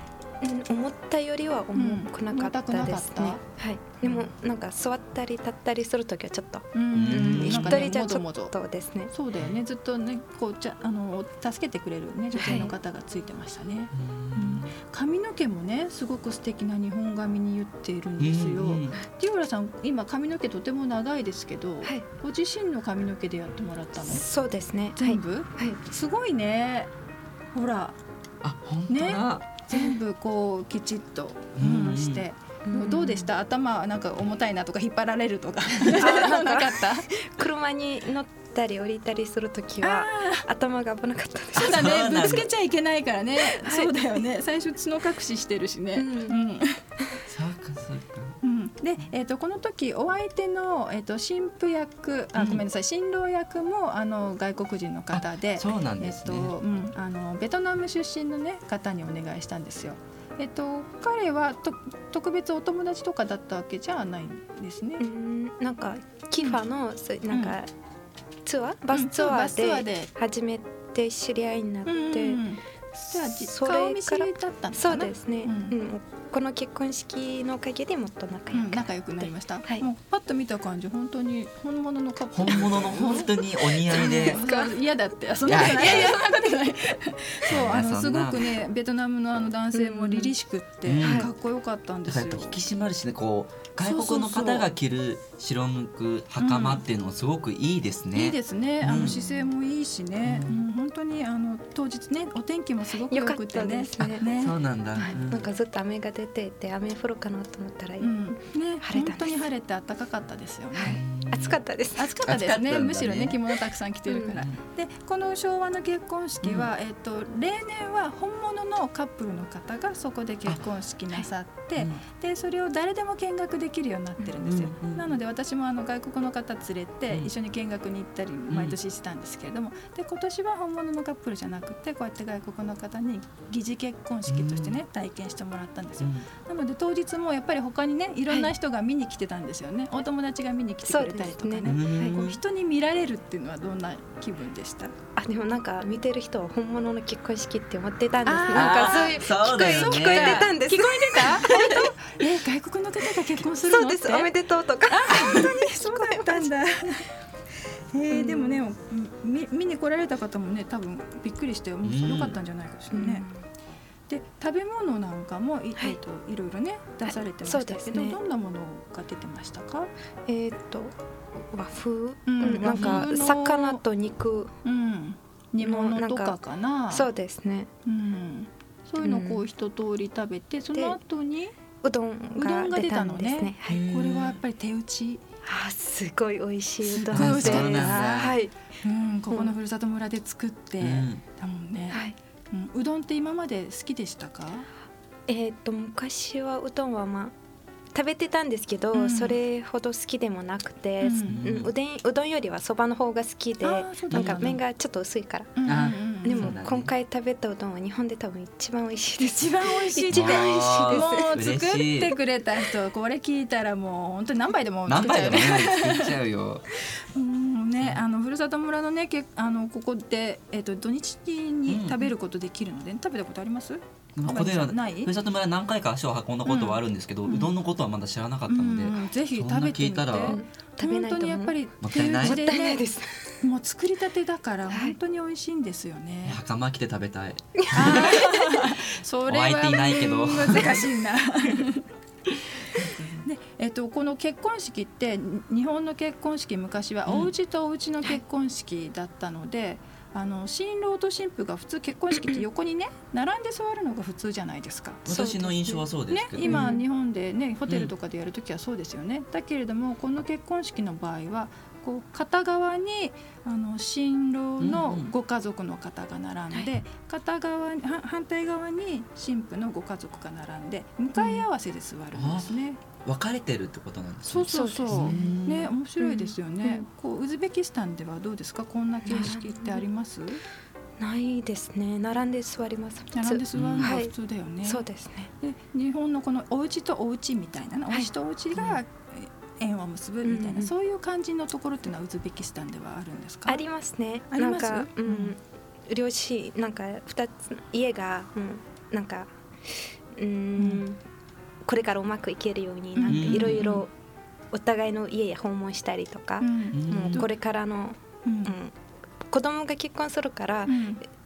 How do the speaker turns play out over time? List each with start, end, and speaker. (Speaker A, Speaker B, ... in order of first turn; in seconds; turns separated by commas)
Speaker A: 0.4-9.1, Speaker B: 1.8-3.4, Speaker B: 6.7-8.5, Speaker C: 6.9-7.9, Speaker B: 9.1-24.2, Speaker A: 12.3-12.7, Speaker C: 13.9-14.7, Speaker C: 18.2-19.0, Speaker A: 24.0-25.8, Speaker B: 24.9-26.9, Speaker B: 27.5-28.0, Speaker C: 28.4-29.5, Speaker B: 28.9-37.1, Speaker C: 31.6-32.2, Speaker A: 32.7-33.3, Speaker A: 35.9-42.3, Speaker B: 39.8-40.5, Speaker C: 41.5-42.5, Speaker B: 41.5-46.8, Speaker A: 43.5-43.9, Speaker A: 45.9-46.4, Speaker C: 47.3-48.4, Speaker B: 48.4-65.0, Speaker C: 52.4-52.6, Speaker C: 55.1-56.5, Speaker A: 65.0-67.7, Speaker B: 67.3-67.5, Speaker A: 68.4-72.4, Speaker B: 68.9-70.1, Speaker B: 71.8-75.7, Speaker A: 73.1-79.8, Speaker B: 78.5-92.6, Speaker C: 82.3-84.5, Speaker A: 83.9-84.7, Speaker C: 85.4-86.2, Speaker A: 85.7-86.2, Speaker C: 87.5-88.6, Speaker A: 89.7-90.3, Speaker C: 90.8-91.3, Speaker A: 91.0-91.3, Speaker C: 92.1-99.3, Speaker B: 93.8-94.7, Speaker B: 96.4-96.8, Speaker B: 98.1-105.2, Speaker C: 100.2-100.6, Speaker A: 103.1-104.2, Speaker C: 104.0-105.4, Speaker A: 105.0-108.1, Speaker B: 108.0-111.0, Speaker A: 108.8-109.4, Speaker A: 110.7-112.1, Speaker C: 110.8-111.6, Speaker B: 112.0-144.9, Speaker C: 112.2-113.5, Speaker A: 114.1-114.4, Speaker C: 114.3-114.6, Speaker C: 116.4-116.7, Speaker C: 121.8-122.0, Speaker C: 124.3-125.1, Speaker C: 128.5-128.8, Speaker C: 134.3-134.8, Speaker C: 136.0-136.3, Speaker A: 140.8-142.2, Speaker C: 141.6-142.4, Speaker A: 145.2-151.9, Speaker B: 148.2-154.3, Speaker C: 148.5-150.5, Speaker A: 153.6-156.5, Speaker B: 154.9-157.1, Speaker B: 157.9-163.3, Speaker A: 158.1-158.6, Speaker C: 161.8-162.4, Speaker A: 162.9-163.3, Speaker B: 164.1-169.9, Speaker A: 167.1-168.2, Speaker A: 170.2-174.5, Speaker B: 172.2-173.8, Speaker C: 172.8-173.0, Speaker B: 174.6-177.1, Speaker A: 175.6-176.3, Speaker A: 176.9-177.7, Speaker B: 177.8-181.5, Speaker A: 179.0-179.4, Speaker A: 181.8-183.8, Speaker B: 182.3-185.2, Speaker C: 183.7-184.4, Speaker A: 185.4-188.5, Speaker B: 186.9-188.2, Speaker C: 187.1-188.4, Speaker B: 188.8-194.7, Speaker C: 190.8-191.2, Speaker A: 191.9-192.2, Speaker A: 195.3-197.3, Speaker A: 197.9-211.4, Speaker B: 198.9-199.3, Speaker B: 201.0-201.5, Speaker C: 201.2-201.7, Speaker B: 203.6-204.6, Speaker C: 204.1-204.5, Speaker B: 205.6-206.5, Speaker C: 205.7-206.9, Speaker B: 209.2-216.2, Speaker C: 210.1-212.1, Speaker C: 214.8-216.7, Speaker B: 216.8-225.1, Speaker C: 221.7-222.1, Speaker C: 224.1-230.4, Speaker B: 226.5-226.8, Speaker B: 228.5-232.8, Speaker A: 230.2-231.5, Speaker C: 231.8-232.4, Speaker A: 232.2-233.3, Speaker B: 233.4-236.4, Speaker A: 234.7-234.9, Speaker C: 236.2-238.2, Speaker A: 237.7-238.6, Speaker B: 237.7-241.8, Speaker C: 239.2-240.9, Speaker A: 240.5-240.8, Speaker C: 242.8-243.2, Speaker B: 243.2-255.4, Speaker C: 255.1-256.8, Speaker A: 255.1-255.8, Speaker B: 256.1-272.8, Speaker A: 256.4-256.8, Speaker C: 264.6-265.1, Speaker C: 272.1-275.7, Speaker B: 274.3-280.4, Speaker A: 274.5-275.3, Speaker A: 276.0-276.9, Speaker A: 279.0-279.8, Speaker A: 281.0-284.1, Speaker B: 283.1-284.8, Speaker C: 283.5-283.9, Speaker A: 284.6-285.3, Speaker B: 285.4-293.6, Speaker A: 290.2-290.7, Speaker A: 293.5-301.0, Speaker B: 294.3-295.3, Speaker B: 300.6-300.8, Speaker A: 301.6-303.9, Speaker B: 303.0-303.8, Speaker C: 303.1-303.6, Speaker A: 304.5-308.8, Speaker B: 306.4-307.3, Speaker C: 306.7-307.3, Speaker B: 308.2-308.5, Speaker A: 309.3-310.9, Speaker B: 310.7-311.0